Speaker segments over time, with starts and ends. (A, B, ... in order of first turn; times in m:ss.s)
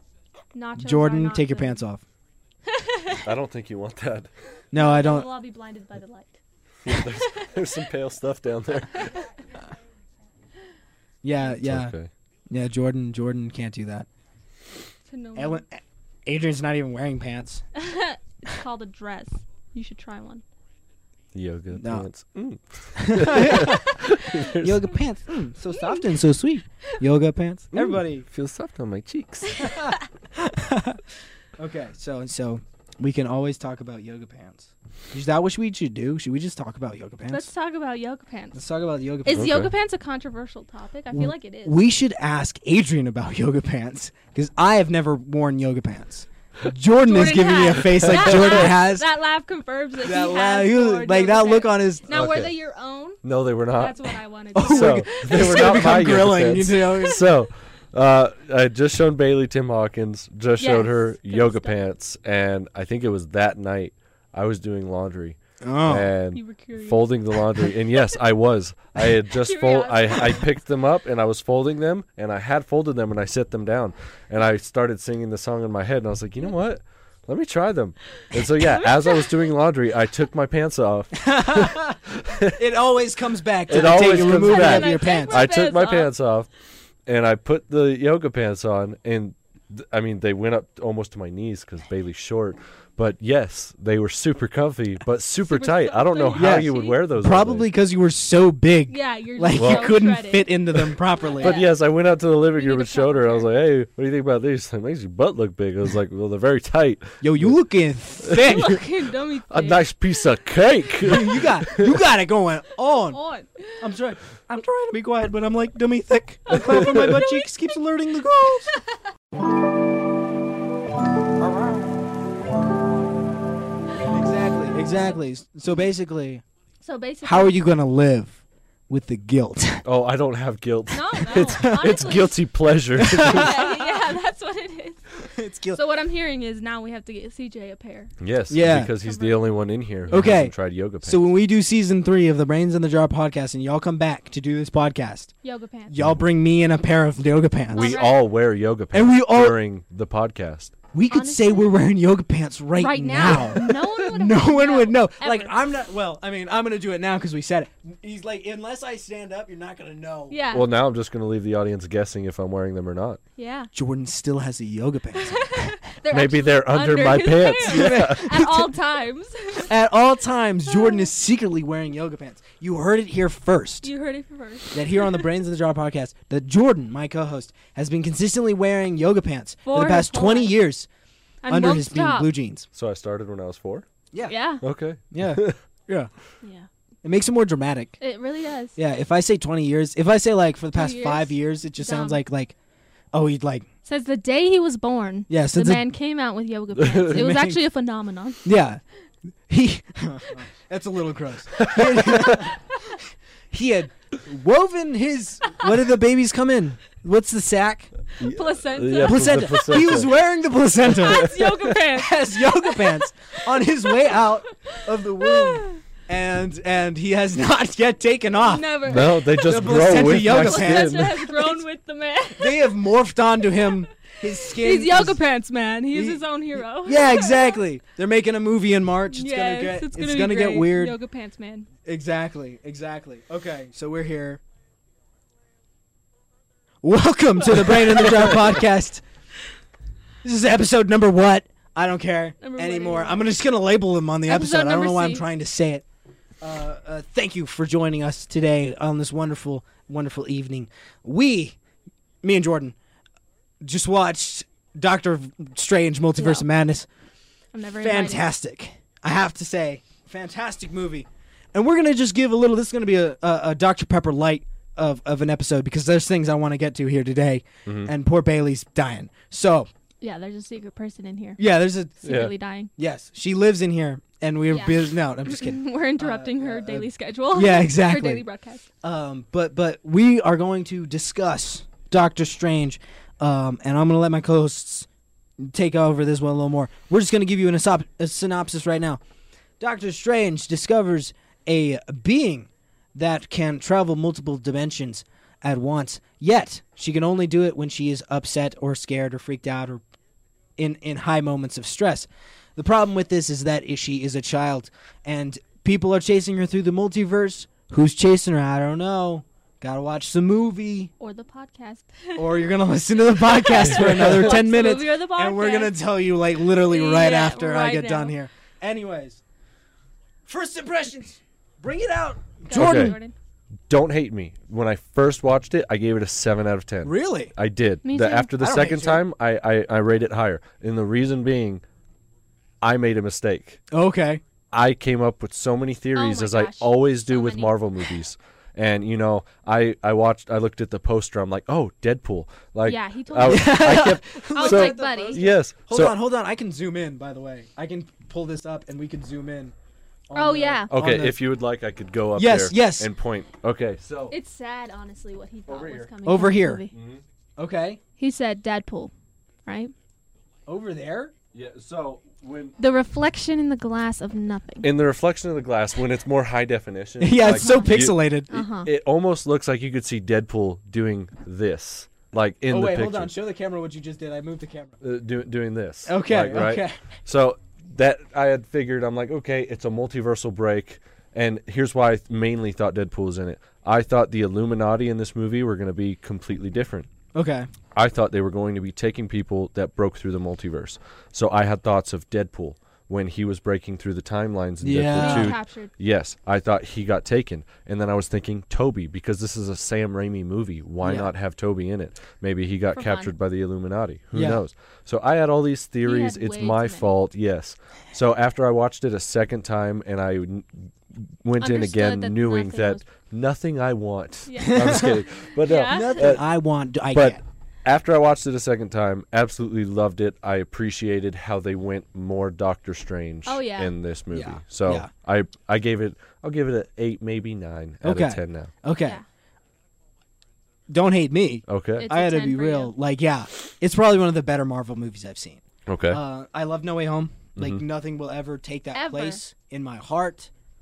0:00.5-0:01.8 A
0:00.8-0:02.0 B
0:02.7-0:03.2 A
0:03.2-0:04.3 C
0:04.7-0:05.3 B
0:04.7-0:07.7 A
0:06.8-0:09.2 C
0:11.2-0:12.0 B
0:11.4-0:12.1 C
0:12.5-0:14.1 B
0:15.1-0:15.6 A
0:15.4-0:17.7 B
0:17.8-0:20.4 A
0:21.3-0:25.0 C
0:21.7-0:22.1 B
0:22.9-0:23.9 B
0:23.5-0:24.5 A
0:24.5-0:28.3 B
0:25.7-0:26.2 A
0:27.7-0:29.7 C
0:29.5-0:29.9 A
0:29.6-0:31.0 B
0:31.6-0:37.5 B
0:37.3-0:38.6 A
0:38.5-0:39.5 B
0:39.2-0:41.8 A
0:39.3-0:39.7 C
0:41.1-0:49.1 B
0:47.0-0:55.9 A
0:48.1-0:48.7 C
0:50.0-0:52.2 B
0:52.1-0:52.5 C
0:53.2-1:22.6 C
0:54.5-0:57.2 B
0:56.8-0:57.2 A
1:00.6-1:01.8 A
1:05.6-1:06.1 B
1:06.3-1:07.6 A
1:09.3-1:10.5 A
1:18.3-1:19.4 A
1:21.2-1:25.4 B
1:23.7-1:26.5 C
1:24.0-1:26.1 A
1:27.1-1:37.7 C
1:35.5-1:37.0 A
1:36.4-1:41.6 B
1:38.9-1:40.5 A
1:39.5-1:40.0 C
1:41.3-1:41.8 A
1:41.4-1:47.6 C
1:42.5-1:43.5 A
1:47.2-1:48.8 B
1:48.2-1:48.8 C
1:48.4-1:50.1 A
1:49.5-1:52.0 C
1:51.0-1:53.2 B
1:53.1-1:54.0 A
1:53.8-1:58.8 B
1:56.5-1:57.6 A
1:56.7-1:57.0 C
1:58.6-1:59.0 A
2:01.4-2:02.0 B
2:04.0-2:06.4 B
2:06.8-2:07.6 A
2:07.2-2:09.8 B
2:09.8-2:13.6 C
2:10.9-2:12.4 A
2:11.5-2:11.8 B
2:13.0-2:13.9 B
2:13.2-2:18.2 A
2:15.2-2:15.8 B
2:18.2-2:21.2 C
2:18.5-2:18.9 B
2:18.8-2:19.6 A
2:20.1-2:25.3 B
2:25.4-2:25.9 A
2:25.9-2:28.0 B
2:27.7-2:28.2 A
2:27.7-2:30.8 C
2:28.9-2:29.6 B
2:30.9-2:40.4 B
2:31.1-2:31.8 A
2:32.8-2:35.5 A
2:40.3-2:40.7 A
2:40.5-2:43.2 C
2:43.4-2:43.7 A
2:43.7-2:45.7 B
2:45.1-2:49.7 A
2:46.1-2:48.3 C
2:47.7-2:48.7 B
2:49.6-2:53.9 B
2:50.7-2:51.1 A
2:53.8-2:55.3 A
2:54.7-3:00.9 B
2:59.7-3:00.5 A
3:01.4-3:02.3 A
3:01.5-3:02.7 B
3:02.7-3:03.9 C
3:04.3-3:04.6 A
3:04.6-3:05.6 C
3:05.1-3:06.1 B
3:06.4-3:06.7 A
3:07.0-3:08.0 B
3:08.0-3:08.8 A
3:08.8-3:12.6 B
3:10.7-3:12.2 A
3:13.1-3:13.7 B
3:13.8-3:18.5 A
3:15.3-3:15.8 B
3:16.8-3:17.2 C
3:17.1-3:17.6 B
3:18.4-3:18.8 B
3:19.5-3:23.0 B
3:21.6-3:22.5 C
3:23.5-3:27.9 B
3:28.2-3:29.6 A
3:28.2-3:30.1 C
3:29.0-3:31.3 B
3:30.9-3:33.0 A
3:30.9-3:31.8 C
3:31.9-3:41.6 B
3:33.8-3:34.2 A
3:35.2-3:35.8 A
3:38.4-3:42.8 A
3:38.9-3:41.2 C
3:42.4-3:45.2 B
3:43.5-3:47.6 A
3:45.9-3:46.2 B
3:46.8-3:51.0 B
3:49.1-3:51.7 A
3:51.9-3:54.4 B
3:56.8-3:59.0 B
4:00.2-4:05.8 B
4:02.4-4:03.3 A
4:04.3-4:05.2 A
4:06.4-4:11.6 B
4:12.2-4:12.8 B
4:13.6-4:16.9 B
4:16.2-4:16.4 A
4:17.5-4:18.2 A
4:17.8-4:29.7 B
4:27.7-4:27.9 C
4:30.0-4:31.4 A
4:31.4-4:32.0 B
4:32.0-4:32.7 A
4:32.0-4:32.3 C
4:32.8-4:38.2 B
4:34.5-4:38.6 A
4:38.8-4:44.9 B
4:45.4-4:49.0 B
4:49.6-4:59.8 B
5:00.6-5:10.9 B
5:11.0-5:12.5 A
5:12.2-5:19.2 B
5:13.1-5:15.8 A
5:13.6-5:14.3 C
5:16.4-5:18.1 A
5:20.3-5:23.0 B
5:22.5-5:23.1 A
5:22.5-5:23.0 C
5:23.7-5:31.6 C
5:26.8-5:27.3 B
5:27.8-5:28.3 A
5:28.4-5:29.0 B
5:32.6-5:33.6 C
5:33.7-5:34.2 B
5:34.5-5:46.0 C
5:36.0-5:37.8 A
5:42.7-5:45.3 A
5:43.2-5:49.5 B
5:50.1-5:51.2 B
5:50.2-5:50.7 A
5:50.7-5:54.2 C
5:52.2-5:52.9 B
5:54.1-5:56.7 A
5:55.5-5:55.9 C
5:56.0-5:56.7 B
5:56.7-5:57.0 C
5:57.4-5:57.8 B
5:58.0-5:58.9 A
5:59.5-5:59.7 A
6:00.5-6:01.1 B
6:01.3-6:02.6 C
6:02.6-6:04.7 A
6:04.6-6:13.1 C
6:07.0-6:08.4 B
6:07.2-6:08.7 A
6:12.5-6:14.8 B
6:14.8-6:26.9 C
6:15.9-6:16.8 B
6:27.1-6:27.5 B
6:27.8-6:56.3 C
6:34.6-6:35.4 B
6:35.0-6:35.7 A
6:40.8-6:41.1 B
6:42.7-6:43.1 A
6:44.1-6:44.4 B
6:45.8-6:46.9 A
6:51.4-6:52.9 A
6:54.3-6:56.2 A
6:54.5-6:54.9 B
6:55.7-6:57.2 B
6:56.9-7:08.5 C
7:03.3-7:03.7 A
7:04.1-7:04.9 B
7:07.8-7:09.0 B
7:10.7-7:20.3 B
7:11.5-7:11.9 C
7:11.8-7:12.7 A
7:15.7-7:16.0 C
7:17.4-7:17.6 C
7:18.7-7:19.2 A